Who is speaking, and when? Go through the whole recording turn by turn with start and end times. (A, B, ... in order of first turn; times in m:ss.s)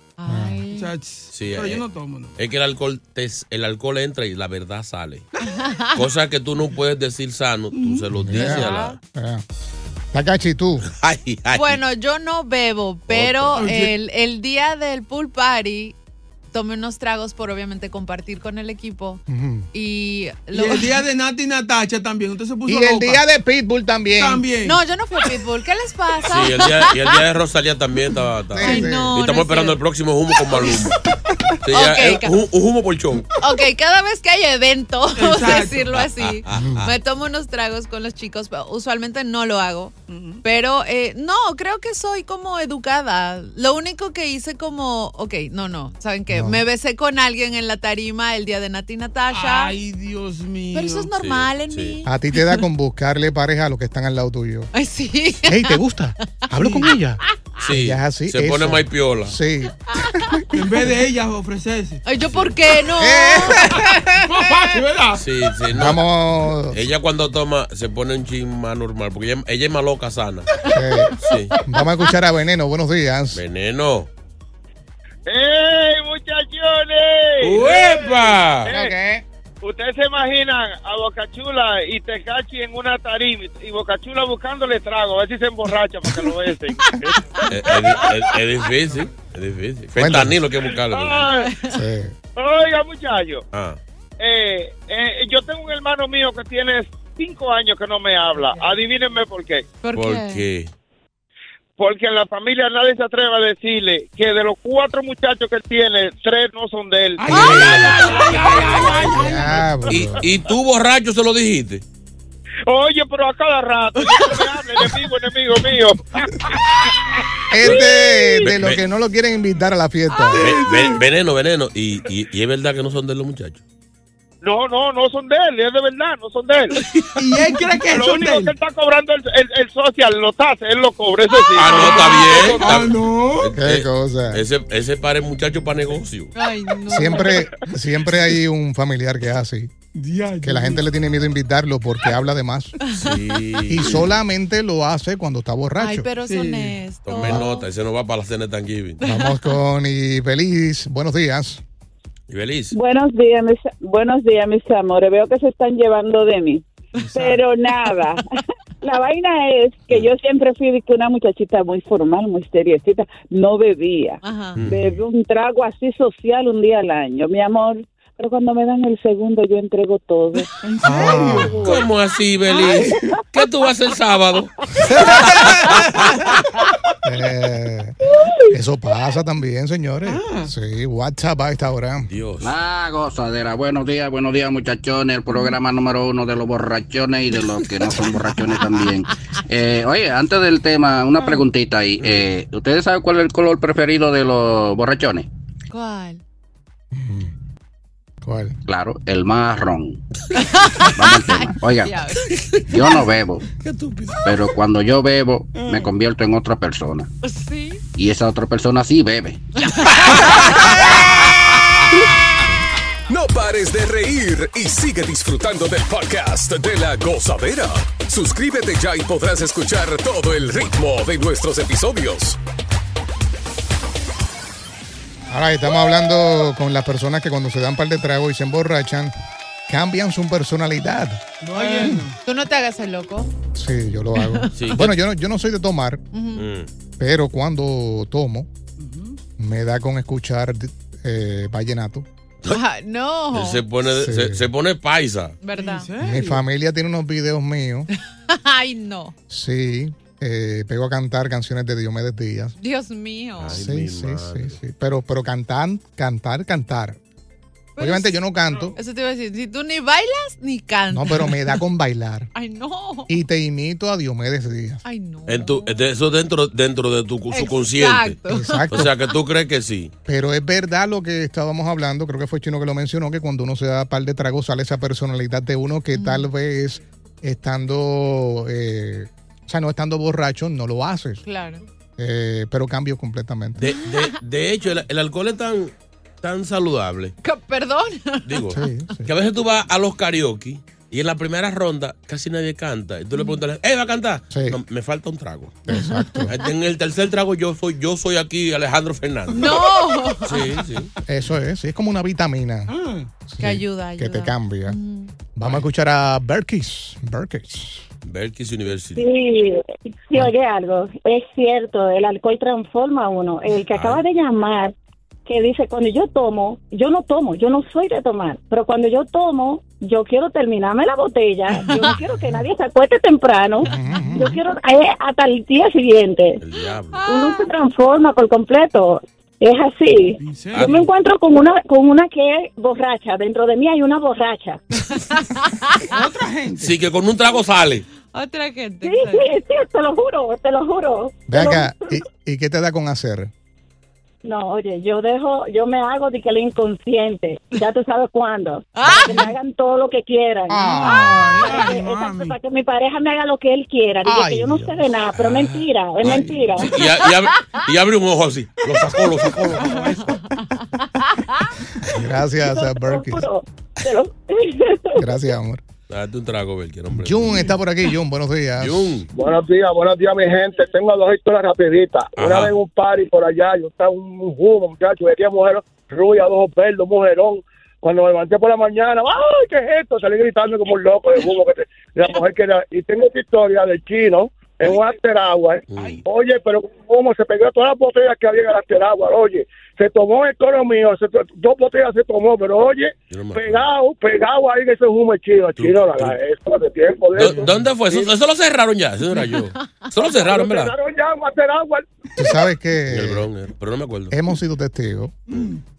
0:00.2-0:00.9 A
0:00.3-0:00.6 B
0:00.7-0:02.4 C
0:01.3-0:01.8 D
0:02.4-0:05.3 D
0:05.4-0:06.0 A
0:06.0-0:09.0 D
0:07.7-0:08.1 C
0:08.2-0:09.4 B
0:08.3-0:09.0 A
0:10.1-0:10.9 B
0:10.9-0:11.8 D
0:11.5-0:16.0 A
0:13.1-0:13.6 D
0:13.5-0:13.9 C
0:16.5-0:19.2 A
0:19.3-0:19.7 B
0:19.7-0:21.0 A
0:20.5-0:23.2 C
0:22.7-0:24.5 B
0:24.2-0:24.8 C
0:24.6-0:27.2 A
0:26.2-0:31.0 D
0:28.5-0:29.2 B
0:28.6-0:29.8 A
0:30.6-0:30.8 C
0:31.6-0:33.3 D
0:31.7-0:32.4 A
0:33.4-0:49.8 A
0:35.2-0:36.0 C
0:35.9-0:36.9 D
0:36.5-0:36.9 B
0:40.1-0:40.4 C
0:46.3-0:46.6 B
0:49.3-0:51.1 C
0:50.7-0:52.6 A
0:51.2-0:52.0 D
0:52.0-0:54.7 B
0:54.7-0:55.8 A
0:55.4-1:00.8 B
0:56.4-0:56.9 A
0:57.6-0:59.4 D
1:00.5-1:02.0 C
1:02.0-1:04.8 A
1:02.2-1:02.6 D
1:03.0-1:03.8 B
1:03.8-1:05.3 C
1:05.2-1:06.0 D
1:05.7-1:06.8 B
1:06.7-1:10.5 D
1:10.7-1:13.4 B
1:11.2-1:11.5 D
1:13.3-1:14.1 D
1:15.3-1:18.9 E
1:17.4-1:18.7 D
1:18.7-1:19.2 B
1:19.6-1:27.2 E
1:26.8-1:28.1 A
1:27.5-1:31.3 D
1:30.0-1:30.4 B
1:30.8-1:31.5 E
1:31.4-1:31.8 A
1:31.7-1:32.1 B
1:32.4-1:33.4 E
1:33.5-1:33.8 D
1:34.2-1:39.7 E
1:39.8-1:40.4 A
1:39.9-1:40.7 D
1:41.8-1:49.3 E
1:47.2-1:49.8 C
1:47.3-1:48.2 B
1:48.8-1:50.2 B
1:49.9-1:51.8 D
1:52.7-1:56.8 E
1:57.5-2:00.5 B
1:57.6-1:57.9 D
1:57.6-1:58.5 E
1:58.4-1:58.8 D
2:00.2-2:01.0 C
2:00.4-2:03.6 D
2:04.4-2:06.8 E
2:06.9-2:08.5 C
2:07.9-2:12.9 E
2:11.6-2:16.3 D
2:11.7-2:13.5 C
2:13.5-2:14.4 B
2:16.3-2:17.4 A
2:16.9-2:19.7 B
2:19.9-2:20.8 C
2:20.4-2:22.7 B
2:22.9-2:24.1 D
2:23.7-2:26.1 B
2:25.8-2:27.7 A
2:26.2-2:27.3 C
2:27.0-2:29.0 D
2:29.0-2:31.6 B
2:32.3-2:32.7 D
2:32.7-2:38.2 F
2:37.0-2:37.4 C
2:38.8-2:50.5 F
2:44.2-2:44.6 A
2:44.6-2:45.0 D
2:50.6-2:51.6 C
2:50.8-2:51.5 B
2:51.2-2:51.8 F
2:51.5-2:54.5 D
2:52.6-2:53.1 C
2:55.0-2:56.0 C
2:57.0-2:58.0 B
2:58.5-3:02.1 B
3:00.0-3:00.5 C
3:02.1-3:02.5 D
3:02.4-3:15.3 G
3:07.6-3:08.0 A
3:15.7-3:16.2 A
3:16.9-3:17.3 B
3:18.2-3:18.5 B
3:18.7-3:20.0 G
3:20.3-3:22.9 A
3:21.0-3:22.0 G
3:22.7-3:23.4 G
3:23.6-3:24.2 D
3:24.2-3:27.1 G
3:27.2-3:27.8 A
3:28.0-3:29.5 G
3:29.6-3:31.1 A
3:33.1-3:42.4 H
3:45.3-3:49.1 B
3:49.7-3:51.2 B
3:51.4-3:52.2 C
3:51.6-3:53.3 A
3:53.5-3:56.0 B
3:54.1-3:54.8 A
3:54.6-3:54.9 D
3:56.1-3:56.5 A
3:56.4-3:56.7 D
3:57.0-3:58.5 B
3:58.8-3:59.2 C
3:59.4-4:02.0 B
4:02.5-4:03.7 A
4:03.3-4:05.4 D
4:03.9-4:04.5 B
4:05.4-4:05.9 A
4:05.5-4:06.4 C
4:06.0-4:07.9 B
4:08.3-4:09.1 A
4:09.3-4:12.5 B
4:12.6-4:13.6 A
4:13.4-4:14.6 D
4:13.4-4:17.0 B
4:17.8-4:18.2 A
4:17.8-4:18.8 B
4:18.7-4:21.6 A
4:20.9-4:22.3 B
4:22.3-4:23.1 A
4:23.1-4:24.8 B
4:24.8-4:25.8 A
4:25.3-4:28.2 D
4:27.3-4:29.0 A
4:28.3-4:28.9 B
4:28.7-4:29.9 D
4:30.1-4:41.2 B
4:35.9-4:36.3 A
4:41.2-4:41.6 A
4:42.0-4:43.6 B
4:43.6-4:47.1 D
4:43.6-4:44.2 A
4:47.2-4:48.6 A
4:48.2-4:55.7 D
4:48.5-4:49.1 B
4:54.3-4:54.6 B
4:55.7-4:56.3 B
4:55.7-4:56.2 A
4:56.3-4:59.6 D
4:59.3-5:00.4 A
5:00.2-5:00.9 D
5:01.1-5:02.7 B
5:02.7-5:03.1 C
5:03.3-5:04.8 B
5:03.4-5:05.2 A
5:05.3-5:07.8 B
5:08.0-5:09.1 D
5:09.0-5:14.7 I
5:13.7-5:14.0 D
5:15.2-5:26.4 I
5:21.6-5:22.0 A
5:23.6-5:24.4 B
5:26.4-5:27.1 D
5:26.9-5:27.5 A
5:27.1-5:34.6 I
5:30.2-5:30.7 C
5:30.5-5:30.8 D
5:34.9-5:36.1 A
5:35.9-5:36.8 C
5:36.6-5:37.8 D
5:38.0-5:39.2 A
5:38.8-5:42.0 I
5:41.3-5:43.3 B
5:44.2-5:56.7 I
5:48.7-5:49.3 A
5:50.5-5:51.3 B
5:50.6-5:52.4 C
5:54.0-5:55.4 B
5:56.0-5:59.8 D
5:56.8-5:57.7 A
5:59.5-6:00.4 C
5:59.7-6:01.5 A
6:01.8-6:03.3 B
6:02.4-6:05.1 I
6:05.0-6:05.6 B
6:05.9-6:07.5 D
6:06.9-6:09.0 B
6:08.6-6:09.1 D
6:09.1-6:38.1 J
6:12.2-6:12.5 D
6:25.7-6:26.0 D
6:25.7-6:26.0 C
6:33.1-6:33.7 D
6:35.6-6:36.2 D
6:37.2-6:40.7 D
6:39.6-6:39.9 A
6:40.2-6:41.9 J
6:42.2-6:43.3 B
6:42.9-6:44.2 D
6:44.1-6:45.2 B
6:45.3-6:45.6 C